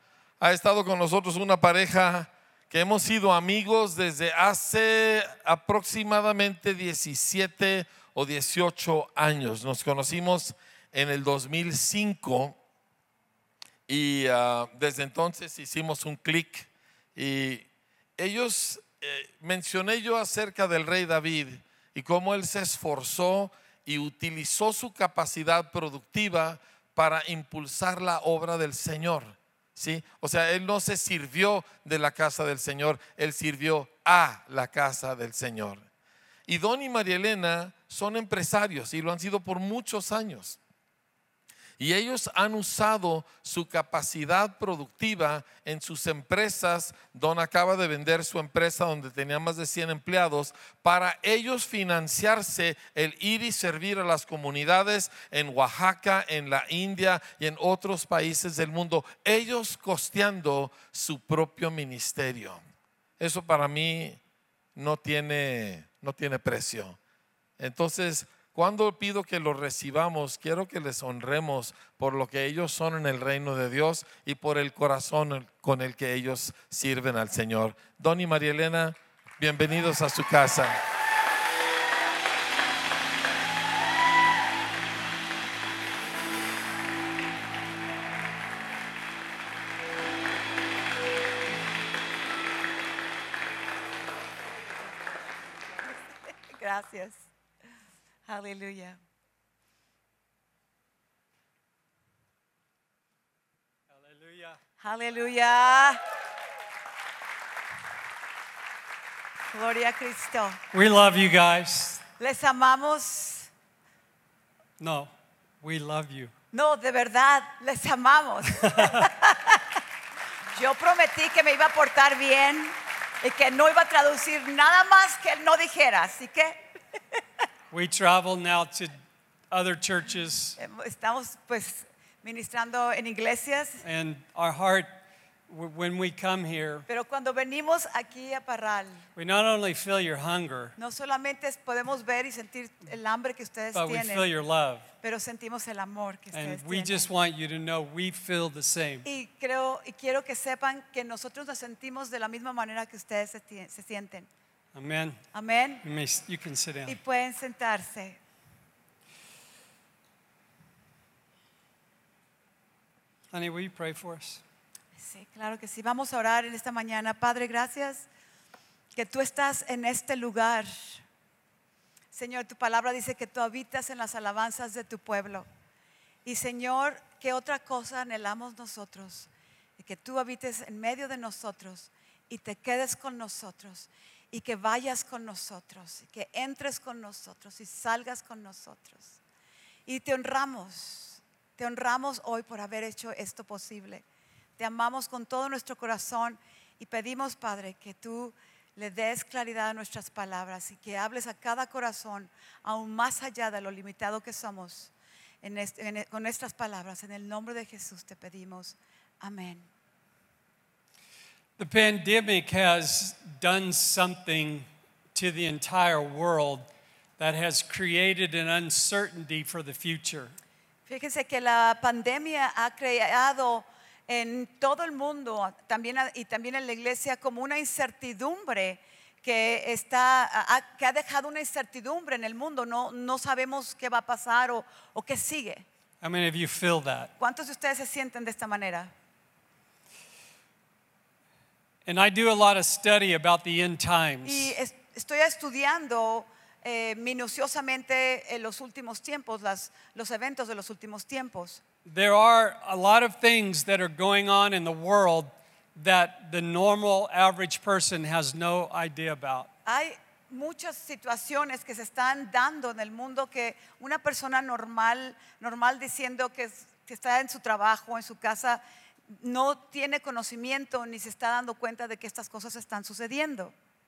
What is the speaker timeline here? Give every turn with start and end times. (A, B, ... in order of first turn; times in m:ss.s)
0:00.4-0:12.6 A
0:13.9-0:17.7 A
0:18.2-0:35.8 A
0:36.5-0:40.6 A
0:41.8-1:02.6 A
1:03.2-1:04.2 A
1:04.8-1:07.0 A
1:07.6-1:20.8 A
1:36.5-1:37.3 B
1:38.3-1:39.0 B
1:43.9-1:44.6 C
1:44.8-1:46.0 B
1:49.5-1:50.6 B
1:50.7-1:52.0 C
1:52.2-1:53.5 B
1:54.8-1:55.1 C
1:55.6-1:56.3 C
1:56.5-1:59.8 B
1:58.6-1:59.1 C
2:00.5-2:06.6 B
2:07.7-2:09.0 C
2:09.5-2:10.6 C
2:10.6-2:13.8 B
2:13.8-2:14.9 C
2:15.5-2:16.9 C
2:16.9-2:19.0 B
2:19.2-2:20.8 C
2:20.8-2:24.3 B
2:23.7-2:24.9 C
2:25.0-2:27.1 B
2:26.3-2:29.0 C
2:29.0-2:34.3 B
2:34.7-2:35.2 C
2:35.3-2:35.8 B
2:35.8-2:37.0 C
2:36.9-2:38.2 B
2:43.3-2:44.4 C
2:45.0-2:48.1 B
2:49.0-2:51.0 B
2:52.1-2:55.5 B
2:56.2-3:09.2 B
3:09.9-3:14.0 B
3:14.6-3:24.9 B
3:25.4-3:29.7 B
3:31.6-3:36.7 C
3:37.2-3:40.3 C
3:40.9-3:55.7 B
3:56.0-3:57.1 C
3:57.2-3:58.9 B
4:01.9-4:04.5 C
4:04.2-4:11.6 B
4:11.8-4:19.5 C
4:19.7-4:33.5 B